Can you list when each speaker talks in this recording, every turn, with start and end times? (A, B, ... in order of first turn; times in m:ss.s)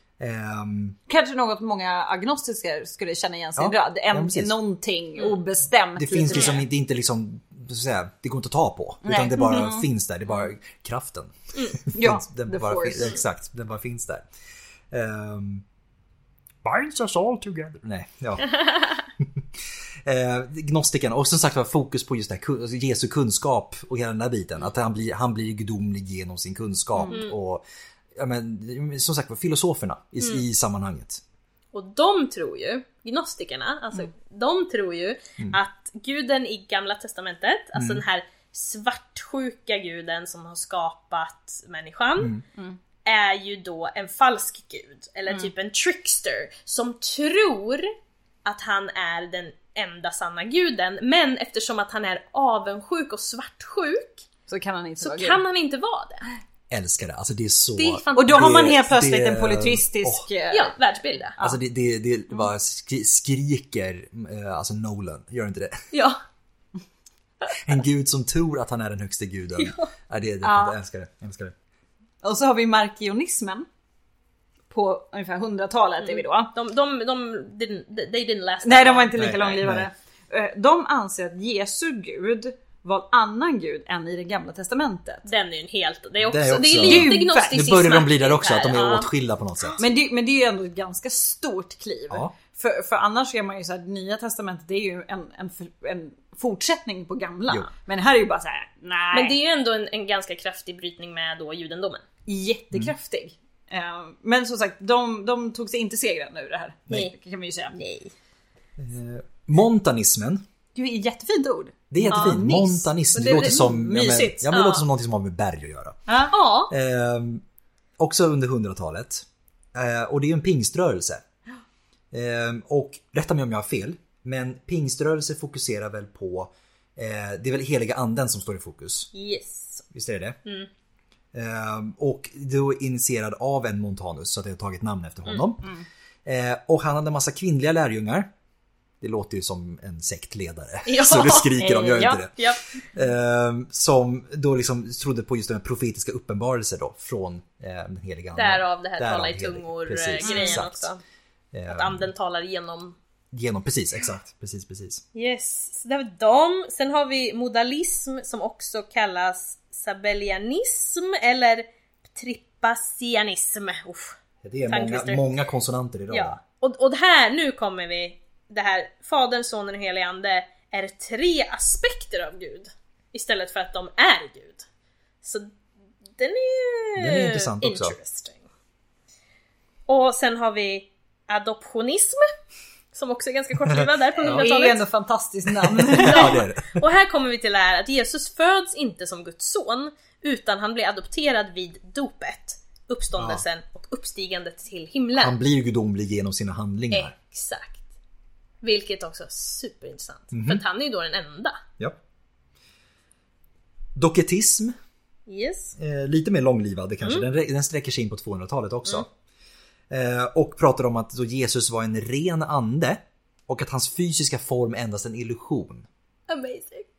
0:00.2-0:01.0 A
0:01.1-0:06.6 B
0:03.6-0:04.6 A
0:06.0-0:14.3 A
0:06.3-0:06.6 C
0:09.0-0:09.9 B
0:11.9-0:13.2 B
0:14.9-0:15.6 A
0:16.6-0:18.7 A
0:18.6-0:18.8 C
0:20.0-0:27.6 A
0:27.1-0:27.3 C
0:28.2-0:31.2 A
0:31.7-0:42.4 C
0:37.8-0:38.0 A
0:43.0-0:47.9 C
0:48.4-0:54.3 C
0:54.5-0:55.4 B
0:55.0-0:56.3 C
0:56.7-1:00.3 A
0:57.8-0:58.7 C
0:58.2-1:00.8 B
1:00.5-1:01.4 C
1:01.4-1:05.8 A
1:05.9-1:06.2 C
1:07.6-1:11.5 A
1:09.6-1:09.8 C
1:10.4-1:10.8 B
1:12.2-1:13.7 B
1:14.7-1:16.5 B
1:16.0-1:19.2 C
1:18.6-1:25.3 B
1:19.2-1:19.9 A
1:25.3-1:29.1 C
1:26.2-1:29.8 A
1:26.8-1:27.7 B
1:29.8-1:39.4 B
1:39.1-1:42.0 C
1:42.3-1:47.8 B
1:47.7-1:48.1 C
1:48.8-1:50.4 A
1:50.8-1:54.5 B
1:51.9-1:56.1 A
1:52.1-1:52.4 C
1:53.1-1:53.7 C
1:54.5-1:54.8 C
1:56.1-1:56.3 B
1:56.3-1:56.7 C
1:56.7-1:57.4 A
1:58.0-2:01.2 A
2:02.1-2:09.1 A
2:09.1-2:09.8 C
2:09.9-2:10.4 A
2:11.3-2:15.7 A
2:16.2-2:18.3 A
2:19.0-2:30.9 A
2:20.9-2:22.6 C
2:21.6-2:22.2 B
2:28.4-2:31.0 C
2:30.2-2:30.6 B
2:31.5-2:32.1 A
2:31.7-2:33.0 C
2:33.3-2:35.0 A
2:35.1-2:44.2 C
2:44.4-2:46.4 A
2:44.7-2:45.3 C
2:46.1-2:54.6 C
2:55.2-2:55.5 C
2:56.2-2:58.4 C
2:57.0-2:58.0 A
2:59.9-3:02.3 C
3:02.9-3:04.8 C
3:03.7-3:04.4 A
3:04.2-3:06.4 B
3:05.6-3:06.8 A
3:06.0-3:15.4 C
3:13.2-3:13.4 A
3:15.2-3:17.1 A
3:16.9-3:17.8 C
3:18.6-3:21.6 C
3:20.3-3:20.6 A
3:24.0-3:24.8 A
3:25.3-3:25.8 C
3:25.8-3:29.1 A
3:29.9-3:35.9 A
3:36.3-3:36.9 C